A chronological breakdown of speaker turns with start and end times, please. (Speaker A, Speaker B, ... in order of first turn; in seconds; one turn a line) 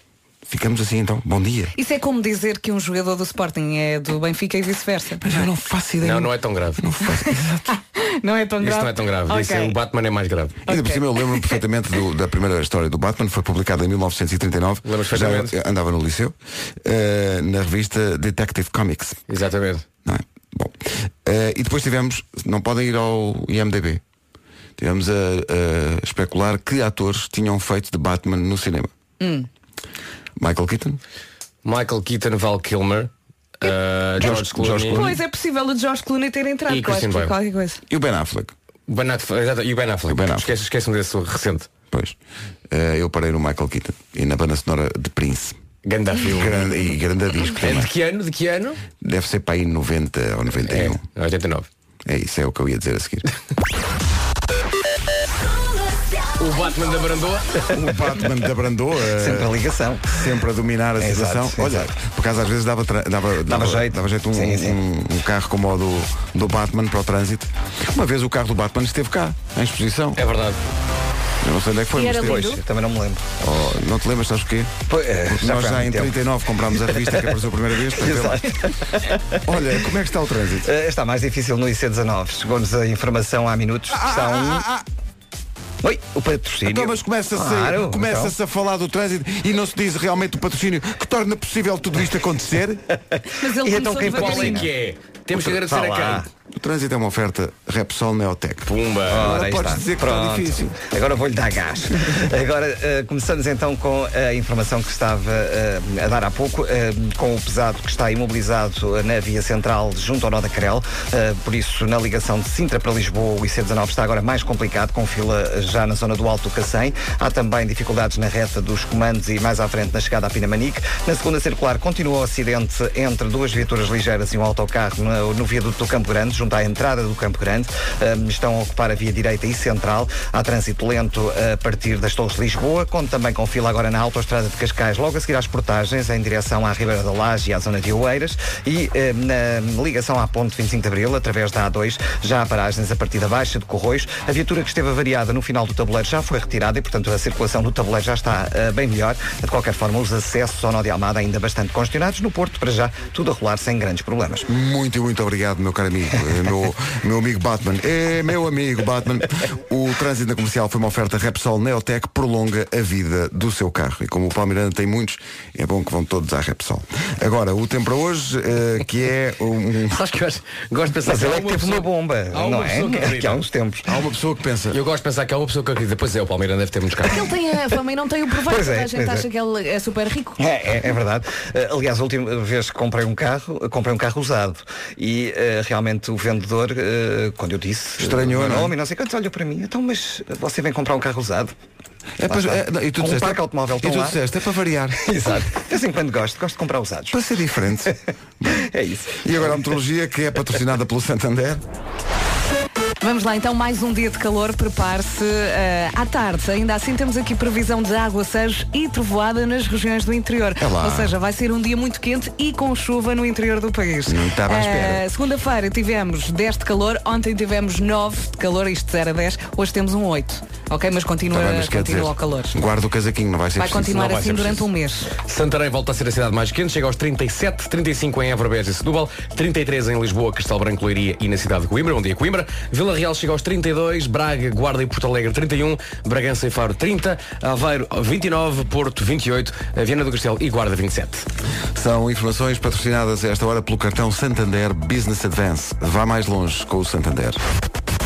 Speaker A: 0.5-1.7
Speaker B: 1.8-5.3
Speaker A: 5.2-7.7
Speaker C: 6.0-6.8
Speaker B: 7.7-9.8
Speaker C: 8.6-10.6
Speaker A: 10.7-19.2
Speaker B: 10.7-11.5
Speaker C: 14.8-15.5
Speaker C: 19.3-19.9
Speaker A: 20.1-24.0
Speaker A: 24.8-28.9
Speaker B: 29.2-29.5
Speaker A: 30.4-31.0
Speaker C: 31.6-35.0
Speaker A: 34.2-35.2
Speaker B: 34.9-37.8
Speaker C: 36.7-37.3
Speaker A: 37.9-38.5
Speaker C: 38.9-41.7
Speaker A: 40.1-40.5
Speaker A: 41.9-42.2
Speaker A: 42.7-45.6
Speaker C: 45.9-46.8
Speaker A: 46.3-47.9
Speaker C: 47.6-48.8
Speaker A: 49.0-51.0
Speaker C: 50.6-51.7
Speaker A: 52.1-53.3
Speaker C: 56.4-57.7
Speaker D: 57.7-58.0
Speaker A: 57.8-59.5
Speaker D: 59.1-60.2
Speaker A: 60.1-70.2
Speaker D: 61.0-61.9
Speaker D: 63.5-64.8
Speaker C: 70.2-70.6
Speaker A: 71.4-72.6
Speaker B: 71.9-72.6
Speaker D: 72.2-73.4
Speaker A: 73.4-78.5
Speaker D: 74.9-76.2
Speaker D: 76.8-77.3
Speaker D: 77.9-79.4
Speaker A: 79.4-80.7
Speaker D: 80.6-84.7
Speaker A: 83.9-84.8
Speaker D: 85.8-88.3
Speaker A: 86.7-92.8
Speaker D: 93.3-94.7
Speaker B: 93.3-94.7
Speaker C: 94.0-96.2
Speaker D: 95.3-96.3
Speaker A: 96.5-100.8
Speaker C: 98.7-99.3
Speaker D: 99.1-154.5
Speaker A: 154.5-170.0
Speaker C: 169.9-173.4
Speaker D: 171.1-173.9
Speaker A: 173.9-174.8
Speaker C: 174.7-177.2
Speaker B: 177.1-180.4
Speaker D: 178.4-179.2
Speaker D: 180.4-191.5
Speaker A: 188.0-188.7
Speaker A: 192.2-195.2
Speaker D: 192.3-194.2
Speaker D: 195.1-197.2
Speaker A: 197.1-198.7
Speaker D: 198.5-199.8
Speaker A: 199.2-201.6
Speaker B: 203.0-222.6
Speaker A: 210.6-211.2
Speaker A: 214.1-215.0
Speaker A: 221.3-224.7
Speaker B: 223.6-225.1
Speaker C: 225.2-241.2
Speaker A: 241.8-247.4